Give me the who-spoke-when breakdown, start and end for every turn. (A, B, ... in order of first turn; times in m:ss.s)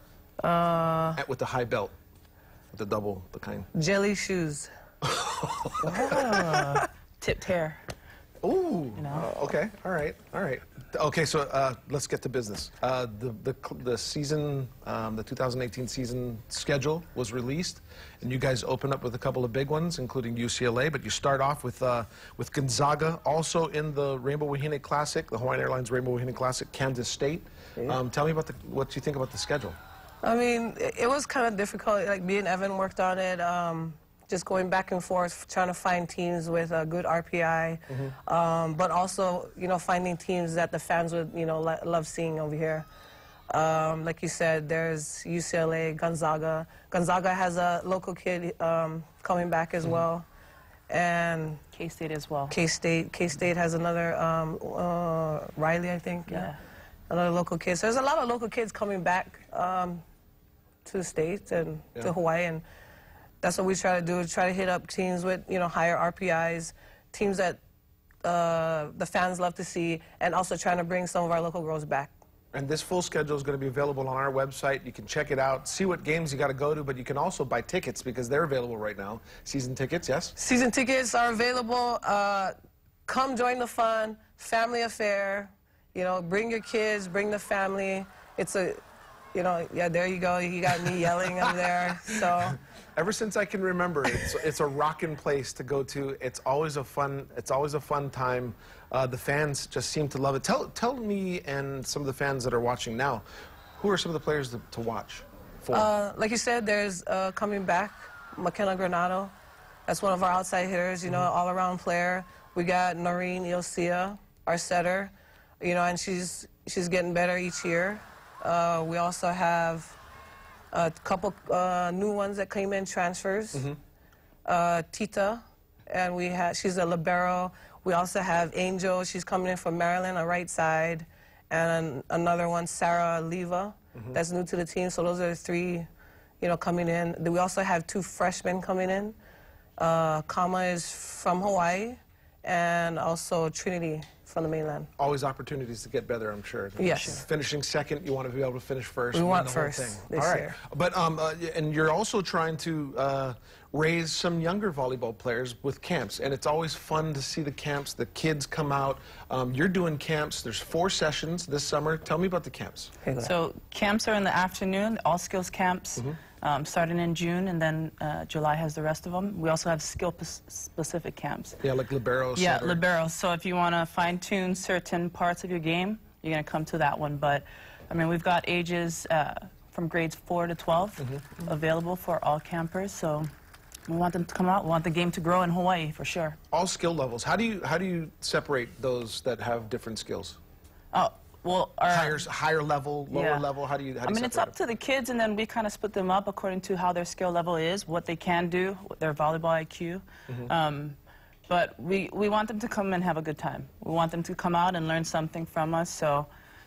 0:00.4-0:01.2 A
0:01.2-0:01.9 B
0:02.7-0:03.7 B
0:03.7-0:04.7 A
0:05.0-0:06.5 B
0:05.8-0:07.8 C
0:08.4-0:29.8 B
0:09.0-0:09.3 C
0:30.2-0:42.9 A
0:43.5-0:50.3 A
0:50.9-0:51.6 A
0:51.7-0:52.6 C
0:52.5-0:56.5 A
0:56.3-0:56.6 C
0:57.1-1:00.0 A
1:00.8-1:02.6 A
1:03.4-1:07.6 A
1:08.2-1:12.2 A
1:12.5-1:20.4 B
1:20.4-1:22.5 A
1:23.1-1:28.8 A
1:29.3-1:32.6 A
1:33.0-1:43.2 B
1:43.8-1:45.9 B
1:45.7-1:49.3 A
1:49.9-2:00.0 A
2:00.7-2:03.7 A
2:04.4-2:15.9 A
2:16.4-2:19.2 A
2:19.8-2:24.9 A
2:25.0-2:42.9 B
2:26.8-2:27.2 A
2:29.1-2:30.6 A
2:43.0-2:43.3 A
2:43.2-2:51.6 C
2:51.6-2:52.8 B
2:52.4-3:03.3 C
3:03.9-3:06.4 C
3:06.5-3:10.4 B
3:10.9-3:12.2 C
3:11.9-3:14.6 B
3:13.1-3:13.5 C
3:14.0-3:26.3 C